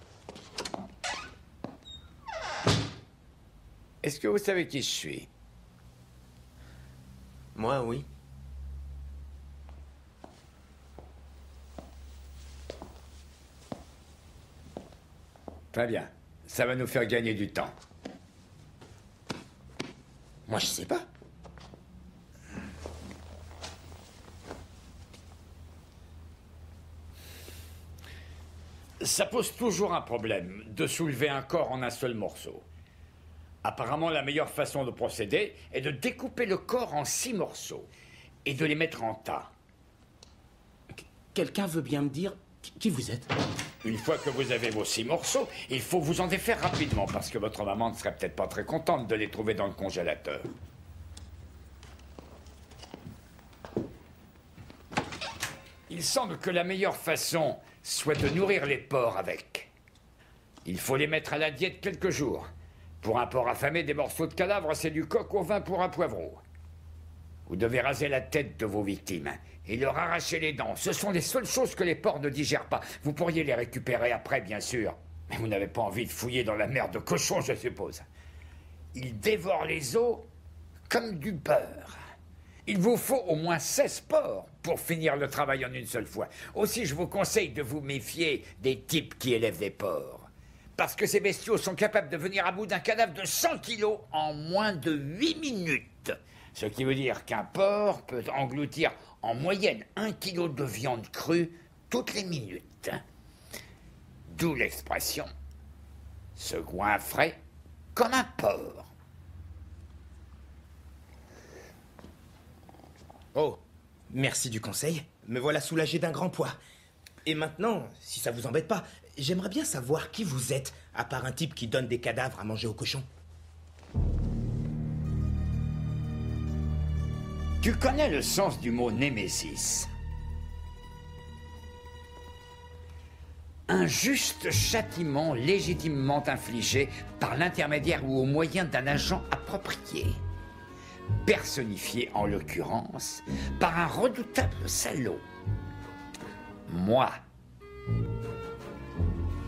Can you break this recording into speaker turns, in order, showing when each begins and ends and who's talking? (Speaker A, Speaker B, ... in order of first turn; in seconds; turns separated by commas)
Speaker A: 4.0-5.3, Speaker B: 7.7-8.0, Speaker A: 15.7-17.7, Speaker C: 20.7-21.0, Speaker A: 29.0-32.7, Speaker A: 33.6-37.9, Speaker A: 38.5-39.5, Speaker C: 41.0-43.3, Speaker A: 43.8-50.5, Speaker A: 55.9-59.7, Speaker A: 60.6-62.5, Speaker A: 63.0-66.4, Speaker A: 67.5-78.0, Speaker A: 78.9-80.2, Speaker A: 80.9-82.0, Speaker A: 82.7-103.0, Speaker A: 104.3-105.3, Speaker A: 106.3-107.4, Speaker A: 107.9-108.9, Speaker B: 114.1-116.5, Speaker B: 117.2-123.0, Speaker A: 127.6-129.9, Speaker A: 133.7-140.2, Speaker A: 141.2-145.2, Speaker A: 146.7-147.1